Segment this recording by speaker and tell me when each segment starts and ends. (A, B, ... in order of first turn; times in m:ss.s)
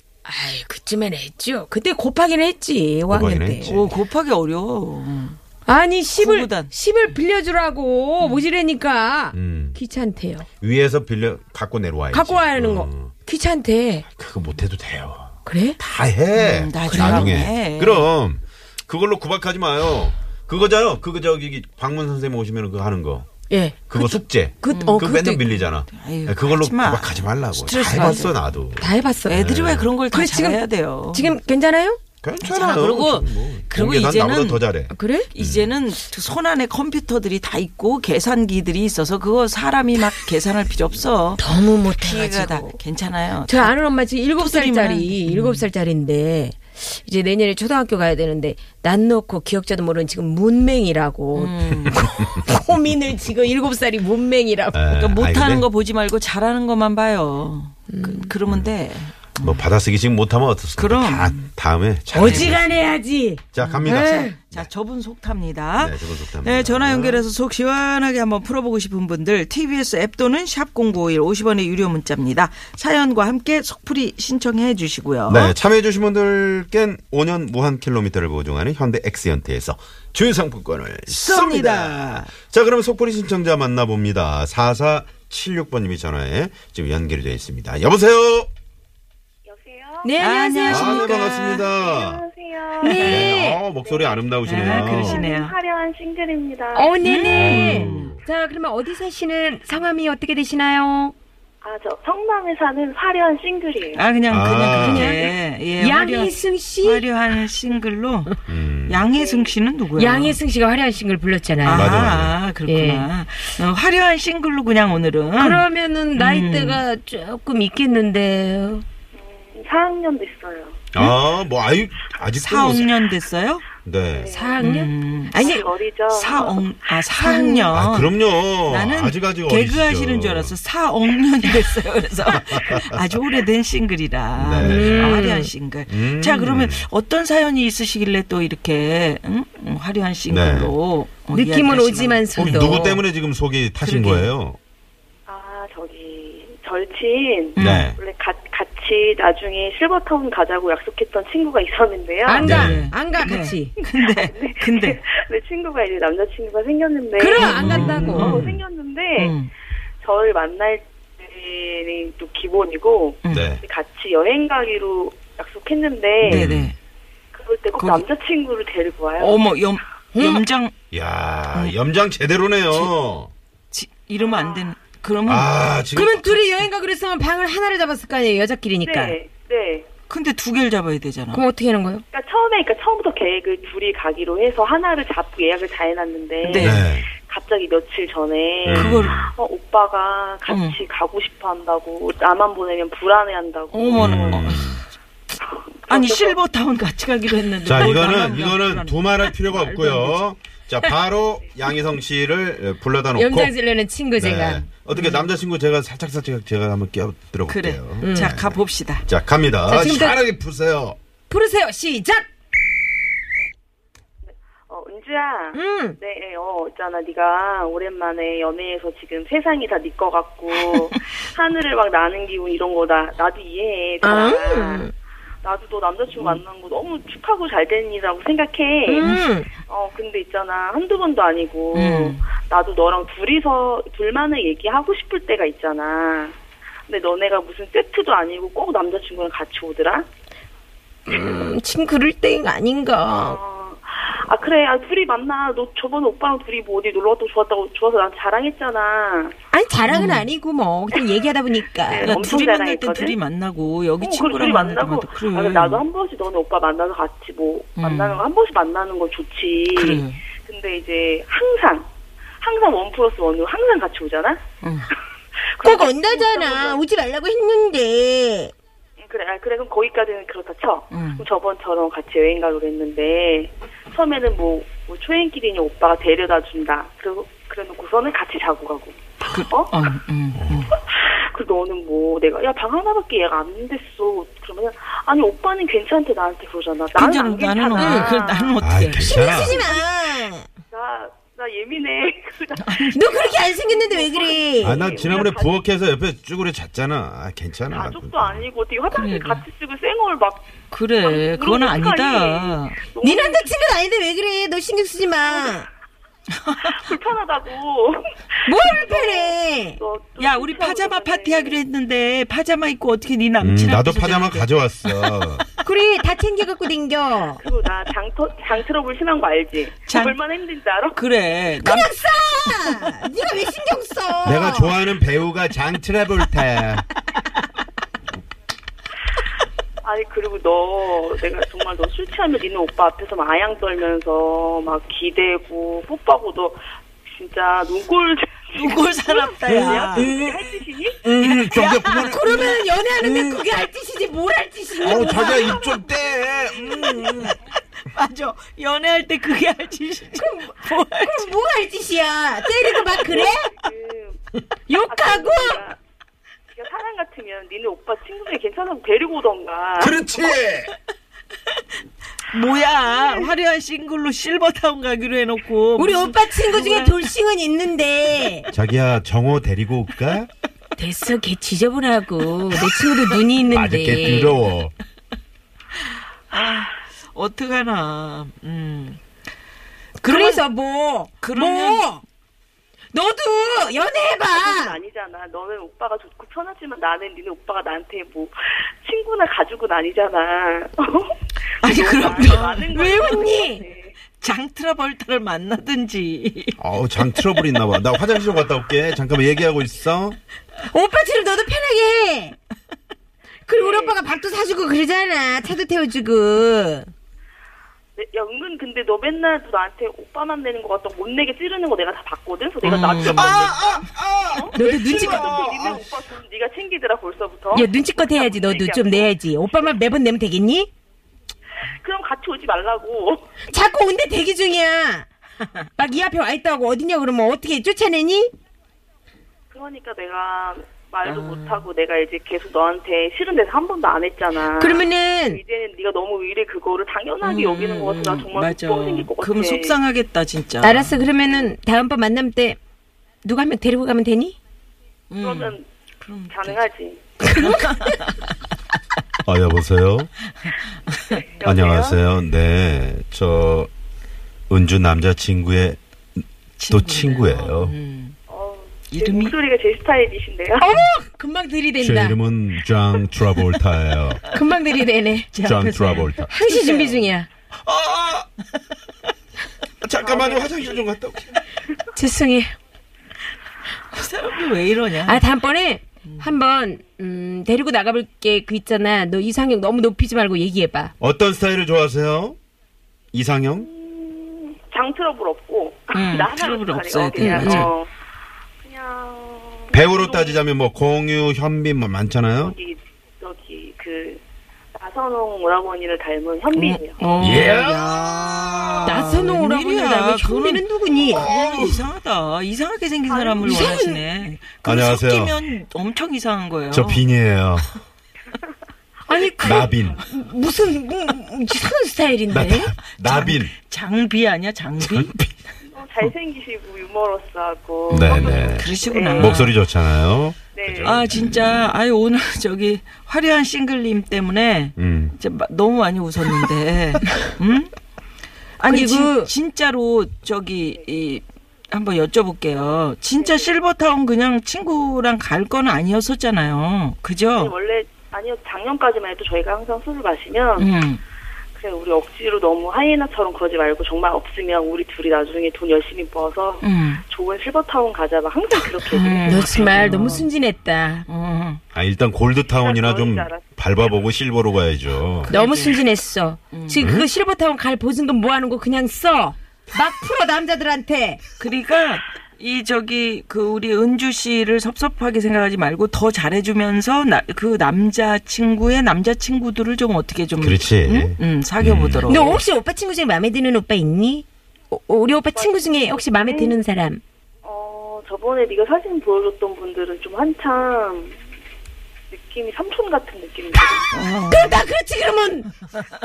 0:00.2-0:03.7 A
0:03.1-0:04.0 B
0:03.6-0:05.4 C
0:05.7-0:10.5 A
0:06.2-0:06.7 C
0:09.3-0:09.8 B
0:10.6-0:13.1 B
0:12.1-0:14.1 A
0:14.1-0:23.3 B
0:15.5-0:15.8 A
0:16.3-0:18.1 C
0:16.8-0:17.5 A
0:23.5-0:25.5 A
0:23.9-0:29.9 B
0:24.7-0:25.1 C
0:25.9-0:28.4 C
0:27.9-0:28.2 A
0:28.8-0:29.4 A
0:29.2-0:31.4 C
0:30.1-0:32.0 A
0:32.2-0:35.7 B
0:32.4-0:34.7 C
0:34.9-0:35.3 A
0:35.3-0:43.7 C
0:41.4-0:42.8 A
0:43.5-0:54.8 A
0:44.4-0:45.7 C
0:51.3-0:52.0 C
0:54.7-0:55.7 B
0:54.9-0:59.6 C
0:57.9-0:58.3 A
0:59.4-1:02.8 B
1:00.8-1:01.5 C
1:02.1-1:04.4 A
1:02.2-1:02.6 C
1:03.5-1:04.7 B
1:03.6-1:15.6 C
1:05.8-1:07.3 B
1:15.3-1:28.5 B
1:21.1-1:22.3 C
1:29.5-1:30.1 D
1:30.0-1:31.2 A
1:30.2-1:31.6 C
1:30.7-1:32.2 B
1:30.9-1:37.0 D
1:32.8-1:33.6 A
1:32.9-1:33.4 C
1:32.9-1:35.3 B
1:34.4-1:35.5 C
1:36.7-1:41.1 A
1:37.0-1:38.2 C
1:37.2-1:38.2 B
1:41.6-1:44.0 D
1:43.9-1:50.4 C
1:44.3-1:45.2 B
1:44.7-1:47.1 A
1:48.5-1:49.0 B
1:49.1-1:49.5 D
1:50.0-1:52.0 A
1:51.6-1:56.8 C
1:51.7-1:52.4 B
1:52.6-1:53.1 A
1:55.4-1:58.8 A
1:59.2-2:00.9 D
2:00.9-2:02.9 B
2:02.3-2:03.7 C
2:03.8-2:04.4 B
2:04.1-2:04.8 D
2:04.3-2:05.7 A
2:04.6-2:05.5 C
2:05.3-2:06.8 D
2:06.1-2:22.8 C
2:07.2-2:07.8 A
2:07.7-2:10.6 B
2:12.3-2:13.0 B
2:14.4-2:15.2 B
2:14.6-2:15.5 A
2:15.9-2:16.9 B
2:20.3-2:20.7 B
2:21.3-2:23.0 A
2:22.4-2:24.6 B
2:23.8-2:24.3 C
2:25.3-2:32.6 D
2:27.6-2:27.9 C
2:27.6-2:28.0 B
2:32.2-2:33.8 A
2:32.4-2:35.0 C
2:32.4-2:32.9 B
2:34.0-2:37.6 D
2:37.2-2:38.5 A
2:37.4-2:38.6 C
2:37.6-2:38.3 B
2:38.2-2:39.4 D
2:39.2-2:39.5 C
2:40.0-2:46.5 D
2:43.2-2:43.5 C
2:43.3-2:43.6 B
2:46.2-2:46.7 B
2:46.3-2:46.8 C
2:47.3-2:49.5 D
2:47.8-2:48.0 C
2:49.2-2:50.7 C
2:50.2-2:50.4 A
2:50.9-2:53.3 B
2:53.7-2:55.8 C
2:54.2-2:54.7 D
2:55.2-2:56.6 B
2:56.0-2:59.2 A
2:58.8-2:59.9 D
3:00.1-3:01.4 C
3:01.3-3:02.0 A
3:02.1-3:14.6 D
3:06.4-3:06.9 C
3:06.6-3:07.1 B
3:08.7-3:09.3 B
3:08.7-3:09.3 C
3:10.5-3:10.8 C
3:13.7-3:14.8 C
3:14.0-3:14.8 B
3:15.4-3:16.4 D
3:15.9-3:20.3 C
3:17.6-3:23.5 B
3:23.2-3:24.7 A
3:24.2-3:31.0 B
3:24.9-3:25.3 C
3:27.5-3:29.1 C
3:28.0-3:28.4 A
3:29.7-3:30.2 A
3:31.3-3:32.3 A
3:34.2-3:44.9 D
3:35.5-3:36.0 A
3:44.0-3:44.9 A
3:45.4-4:00.1 D
3:48.9-3:49.6 A
3:51.7-3:52.2 C
4:01.1-4:03.4 A
4:03.2-4:09.4 D
4:09.5-4:12.2 A
4:09.9-4:10.3 C
4:10.9-4:13.2 D
4:12.0-4:15.8 C
4:14.0-4:21.9 D
4:17.8-4:18.2 C
4:19.8-4:20.2 C
4:22.4-4:24.4 D
4:24.6-4:24.9 C
4:25.6-4:26.8 D
4:25.6-4:28.5 A
4:29.0-4:39.7 D
4:30.9-4:31.2 C
4:39.3-4:40.8 C
4:40.4-4:40.7 B
4:40.7-4:48.6 D
4:46.9-4:49.5 C
4:47.8-4:48.2 A
4:48.6-4:49.6 B
4:49.0-4:50.6 A
4:49.4-4:49.7 D
4:50.6-4:55.6 D
4:52.6-4:53.3 C
4:52.9-4:55.0 A
4:54.6-4:58.4 B
4:57.7-5:03.5 D
4:58.9-4:59.4 C
5:00.7-5:02.8 C
5:03.0-5:05.7 A
5:05.2-5:05.6 D
5:06.4-5:06.7 C
5:06.6-5:11.6 D
5:08.4-5:09.8 A
5:10.2-5:15.2 C
5:13.4-5:15.5 B
5:15.6-5:17.4 A
5:17.4-5:21.1 D
5:19.9-5:20.2 C
5:21.0-5:22.9 C
5:21.6-5:24.8 A
5:24.2-5:26.8 B
5:29.8-5:41.2 D
5:38.6-5:40.2 C
5:39.9-5:40.4 B
5:41.0-5:42.6 B
5:41.2-5:42.5 C
5:41.9-5:45.9 A
5:44.8-5:47.4 B
5:45.4-5:46.6 D
5:46.6-5:51.4 C
5:46.7-5:47.2 A
5:50.2-5:53.5 A
5:52.6-5:53.0 C
5:53.0-5:54.2 D
5:54.7-5:55.6 A
5:54.8-5:55.8 D
5:56.5-6:00.2 D
5:59.8-6:00.7 B
6:02.2-6:07.0 C
6:05.8-6:08.5 A
6:08.5-6:10.3 B
6:10.8-6:14.4 A
6:12.6-6:13.1 C
6:13.5-6:14.7 B
6:16.3-6:19.0 C
6:20.0-6:22.0 A
6:20.0-6:20.4 C
6:21.2-6:22.0 C
6:22.9-6:24.8 A
6:23.6-6:34.0 D
6:31.6-6:33.1 C
6:32.7-6:33.6 A
6:34.2-6:37.4 C
6:36.6-6:40.2 B
6:40.6-6:42.4 A
6:43.5-6:46.9 A
6:43.6-6:44.0 D
6:48.0-6:59.9 D
6:52.6-6:53.5 C
6:53.1-6:55.8 B
6:54.5-6:55.3 A
6:57.5-7:00.7 A
7:01.7-7:03.4 D
7:03.4-7:05.1 A
7:05.6-7:08.3 A
7:09.5-7:19.8 D
7:11.0-7:11.7 C
7:14.4-7:15.4 A
7:17.2-7:21.1 C
7:20.6-7:22.6 A
7:21.2-7:21.5 D
7:23.2-7:24.4 A
7:25.1-7:26.6 C
7:25.2-7:25.7 D
7:26.3-7:27.2 D
7:27.2-7:28.1 A
7:27.3-7:28.3 C
7:29.2-7:30.1 B
7:30.4-7:31.2 C
7:31.1-7:32.0 D
7:31.4-7:33.7 B
7:34.5-7:35.8 B
7:36.6-7:38.2 C
7:36.7-7:37.8 B
7:38.3-7:40.7 D
7:38.9-7:39.4 C
7:40.6-7:42.2 A
7:41.8-7:44.2 B
7:44.3-7:45.3 A
7:45.3-7:47.1 C
7:45.4-7:46.3 B
7:46.3-7:47.3 A
7:47.6-7:48.3 B
7:49.8-7:51.4 B
7:50.0-7:50.9 D
7:51.9-7:52.5 A
7:53.9-7:55.2 C
7:55.0-8:00.9 A
8:01.0-8:02.4 B
8:03.1-8:03.7 B
8:03.6-8:07.9 D
8:05.9-8:07.7 C
8:07.2-8:07.7 A
8:08.6-8:10.4 D
8:09.7-8:12.6 B
8:12.4-8:14.2 D
8:14.8-8:17.0 D
8:16.6-8:27.1 C
8:17.0-8:17.6 A
8:17.2-8:19.2 B
8:18.8-8:21.3 A
8:21.1-8:21.9 B
8:23.1-8:23.6 D
8:23.4-8:24.0 A
8:24.6-8:25.5 B
8:26.7-8:27.7 B
8:29.1-8:32.7 A
8:29.1-8:30.0 D
8:29.4-8:30.0 B
8:32.3-8:33.5 B
8:32.3-8:35.3 C
8:34.8-8:35.1 B
8:35.7-8:39.5 D
8:37.9-8:39.6 C
8:37.9-8:41.4 B
8:40.5-8:41.0 D
8:40.8-8:47.7 C
8:44.8-8:45.2 B
8:48.6-8:57.5 C
8:48.6-8:49.3 A
8:53.2-8:53.6 D
8:57.4-9:00.7 D
9:00.6-9:01.0 C
9:01.6-9:09.2 D
9:06.6-9:07.0 C
9:08.9-9:10.3 C
9:09.2-9:11.1 A
9:11.1-9:11.6 C
9:11.7-9:15.3 B
9:12.5-9:13.4 D
9:15.3-9:21.2 A
9:15.3-9:15.8 C
9:16.5-9:16.9 C
9:16.8-9:17.1 B
9:21.4-9:32.4 C
9:30.4-9:32.2 B
9:32.1-9:37.0 A
9:35.3-9:36.6 D
9:37.4-9:41.2 D
9:42.1-9:43.8 D
9:43.6-9:45.5 A
9:43.9-9:44.7 C